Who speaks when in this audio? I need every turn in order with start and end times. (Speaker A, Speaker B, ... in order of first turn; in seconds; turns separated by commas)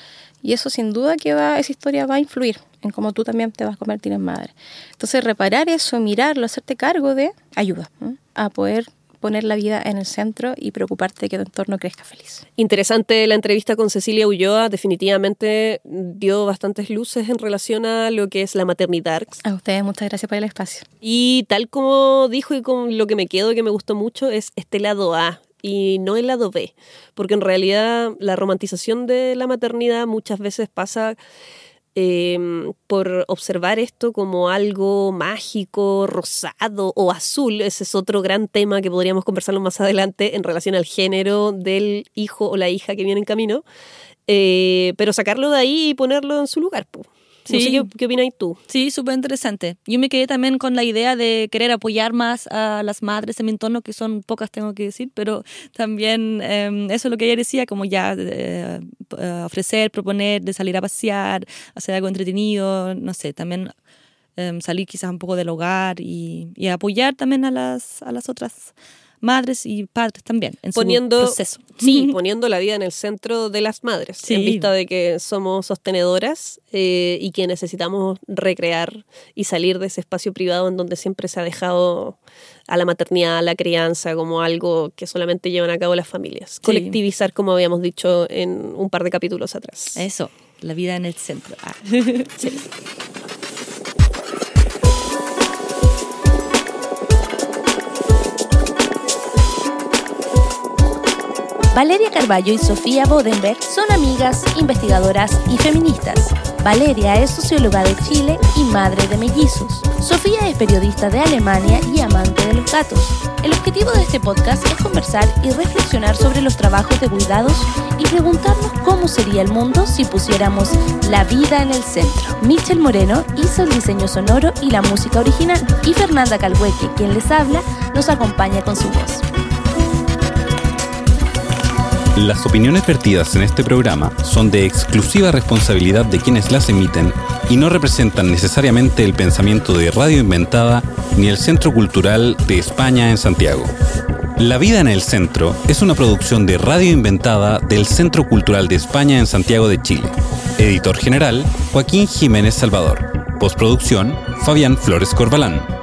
Speaker A: 0.4-12.4, Speaker B: 12.6-19.4, Speaker A: 19.4-20.9, Speaker B: 21.0-31.2, Speaker B: 31.9-43.6, Speaker B: 44.3-48.6, Speaker C: 47.5-47.9, Speaker C: 48.7-63.7, Speaker C: 64.4-72.1, Speaker B: 70.7-82.2, Speaker C: 74.2-74.7, Speaker B: 82.7-90.0, Speaker C: 86.6-87.0, Speaker C: 90.0-92.6, Speaker D: 101.7-129.2, Speaker E: 132.1-143.7, Speaker E: 144.4-155.7